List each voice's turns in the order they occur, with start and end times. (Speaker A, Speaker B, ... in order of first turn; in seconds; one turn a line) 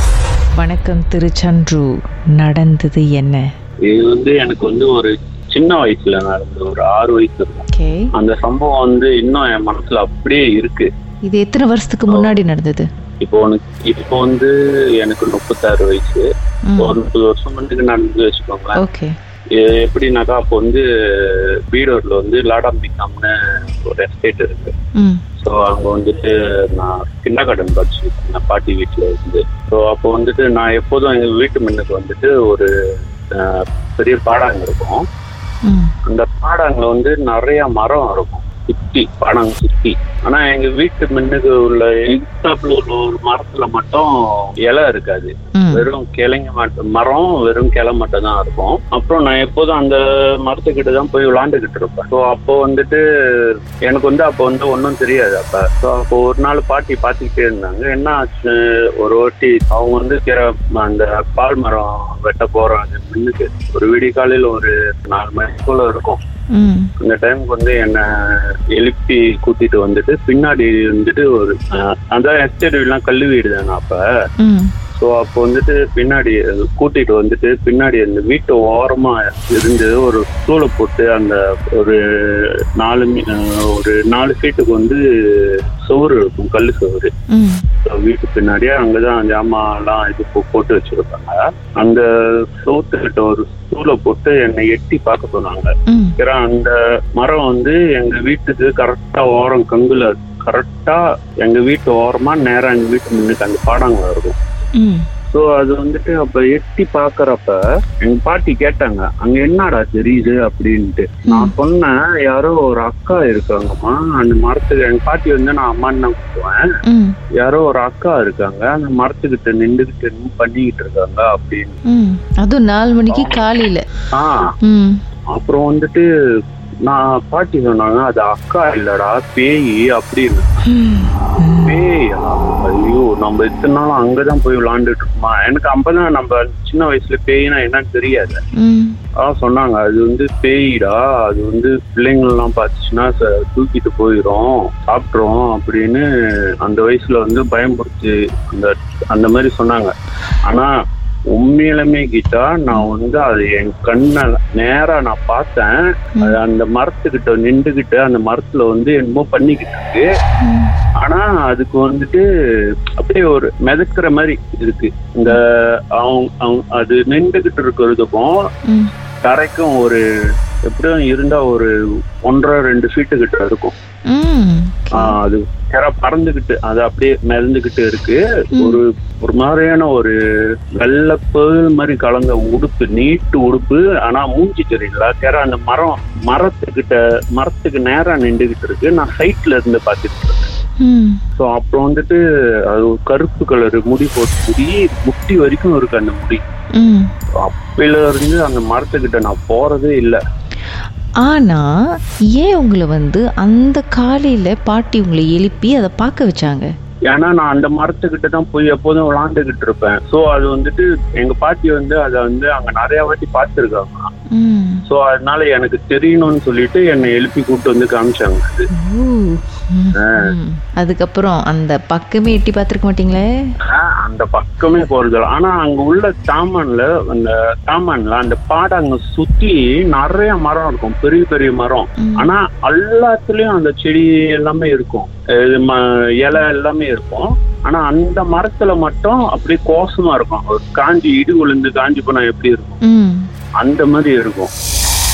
Speaker A: 0.6-3.5
Speaker B: 3.9-7.6
Speaker A: 7.7-8.0
Speaker B: 8.2-10.9
Speaker A: 11.3-12.9
Speaker B: 12.1-12.3
Speaker B: 13.2-18.8
Speaker A: 16.7-17.0
Speaker A: 18.8-19.1
Speaker B: 19.6-23.3
Speaker B: 23.9-24.7
Speaker B: 25.4-32.7
Speaker B: 33.3-35.0
Speaker A: 35.6-35.9
Speaker B: 36.1-66.2
Speaker A: 45.5-45.9
Speaker A: 66.5-66.9
Speaker B: 67.0-74.0
Speaker A: 74.4-74.7
Speaker B: 75.0-87.1
Speaker A: 87.3-87.6
Speaker B: 87.8-104.3
Speaker A: 95.9-96.2
Speaker A: 104.8-105.0
Speaker B: 105.3-116.6
Speaker A: 111.3-111.5
Speaker A: 116.9-117.2
Speaker B: 117.4-121.8
Speaker A: 121.9-123.8
Speaker B: 123.1-123.4
Speaker B: 124.1-124.5
Speaker A: 124.6-125.0
Speaker B: 125.3-126.1
Speaker B: 126.8-130.5
Speaker A: 130.7-131.8
Speaker B: 131.6-138.4
Speaker A: 138.6-139.0
Speaker B: 139.2-146.1
Speaker B: 146.6-149.9
Speaker B: 151.3-160.1
Speaker A: 160.4-160.7
Speaker B: 161.0-162.2
Speaker B: 163.0-168.4
Speaker B: 169.2-170.0
Speaker B: 170.7-171.7
Speaker B: 172.2-173.7
Speaker A: 174.1-175.1
Speaker B: 174.9-180.2
Speaker B: 180.8-190.5
Speaker A: 190.8-191.2
Speaker B: 191.4-196.4
Speaker A: 196.8-197.1
Speaker B: 197.4-200.2
Speaker A: 201.2-201.7
Speaker A: 202.4-206.7
Speaker B: 207.1-214.1
Speaker A: 214.3-214.8
Speaker B: 214.9-218.7
Speaker A: 218.8-223.3
Speaker B: 219.9-220.3
Speaker B: 223.7-242.8
Speaker A: 232.0-232.3
Speaker A: 242.8-243.3
Speaker B: 243.6-244.5